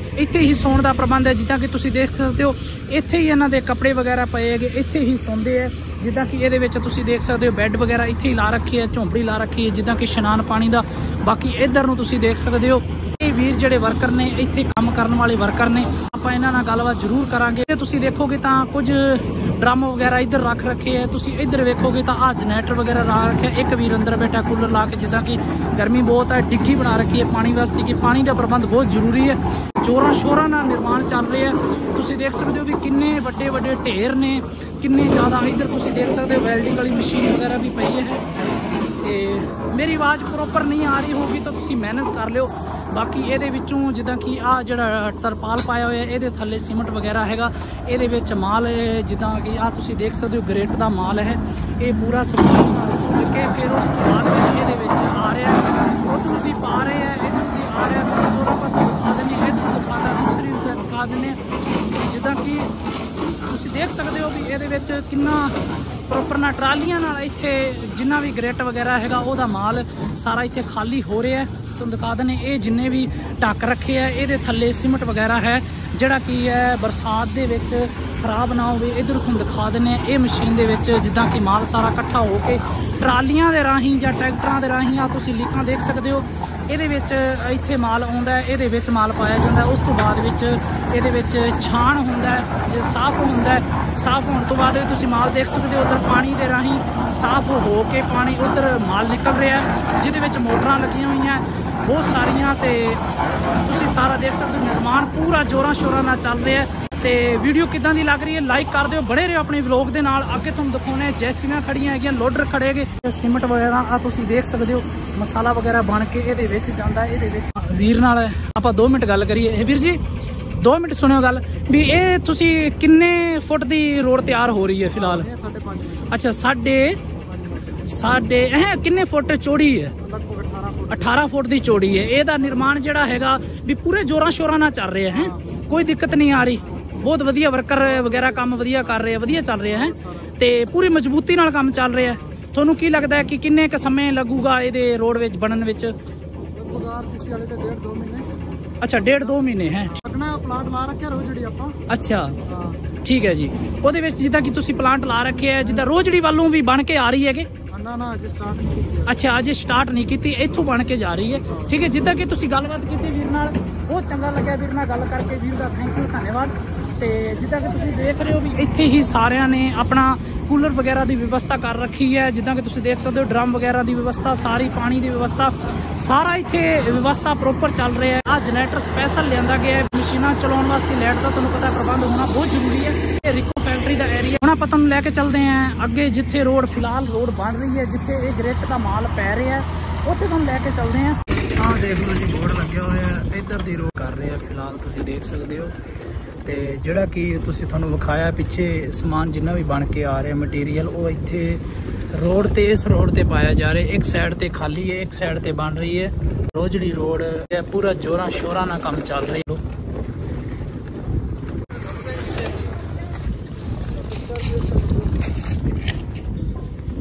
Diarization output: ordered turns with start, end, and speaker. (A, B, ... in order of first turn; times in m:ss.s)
0:00.2-0:38.2 A
0:39.0-1:02.7 A
1:03.4-1:43.0 A
1:43.6-2:00.0 A
2:00.6-2:05.3 A
2:04.9-2:06.1 B
2:06.1-2:07.0 A
2:07.3-2:07.8 B
2:07.8-2:10.0 A
2:10.0-2:11.3 B
2:10.9-2:25.9 A
2:15.2-2:15.6 B
2:17.8-2:20.3 B
2:26.4-2:28.3 B
2:28.8-2:30.0 A
2:29.9-2:31.8 B
2:31.9-2:32.4 A
2:32.5-2:32.8 B
2:33.0-2:37.5 A
2:37.7-2:39.2 B
2:39.1-3:15.7 A
2:41.5-2:41.8 B
3:16.4-3:29.6 A
3:34.2-3:35.1 B